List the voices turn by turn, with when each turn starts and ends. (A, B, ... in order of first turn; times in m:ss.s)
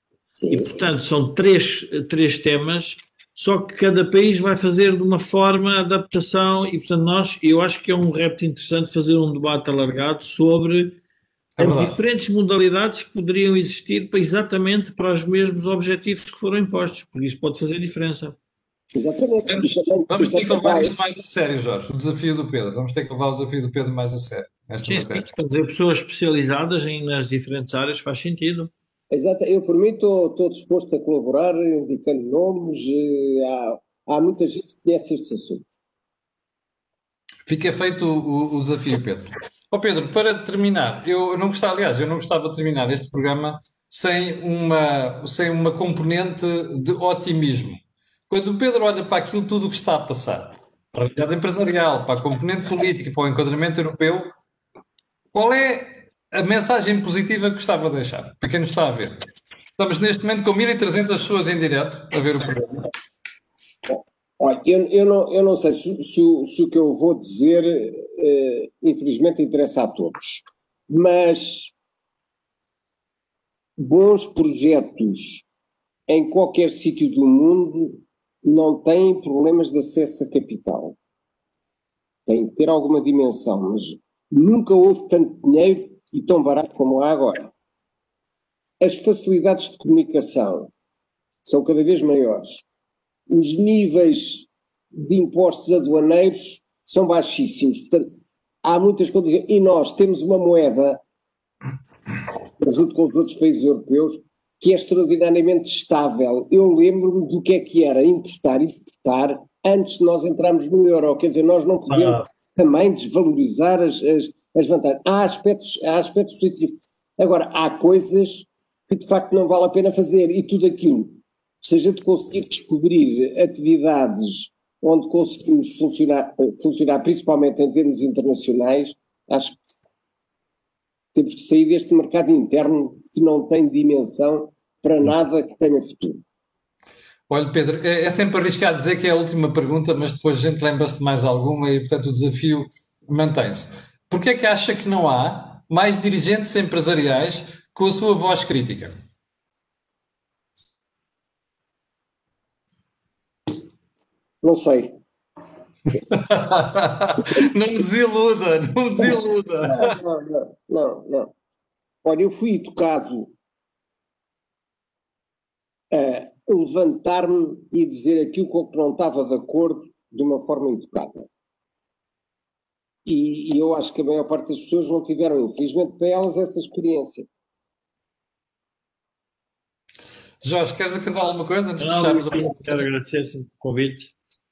0:00.4-0:00.8 A
0:00.5-0:11.0 B
0:11.6-0:12.0 C
0:11.6-0:18.4 B
0:19.0-0:21.0 A
0:19.5-0:25.2 C
0:24.8-0:28.7 B
0:29.1-0:35.7 A
0:37.5-0:54.3 C
0:55.3-0:59.2 C
0:59.8-1:02.9 C
1:03.9-1:11.7 A
1:13.8-1:15.5 A
1:16.1-1:21.0 A
1:22.3-1:27.5 A
1:28.8-1:30.7 A
1:31.4-1:32.7 A
1:33.3-1:38.1 A
1:38.6-1:41.0 A
1:42.6-2:09.6 A
1:51.9-1:52.2 B
2:11.1-2:16.2 A
2:17.3-2:29.0 C
2:34.4-2:35.0 A
2:36.1-2:40.0 C
2:39.0-2:41.3 A
2:42.0-2:43.3 A
2:45.9-2:51.3 A
2:53.1-2:57.3 A
3:00.4-3:02.8 C
3:01.8-3:04.1 B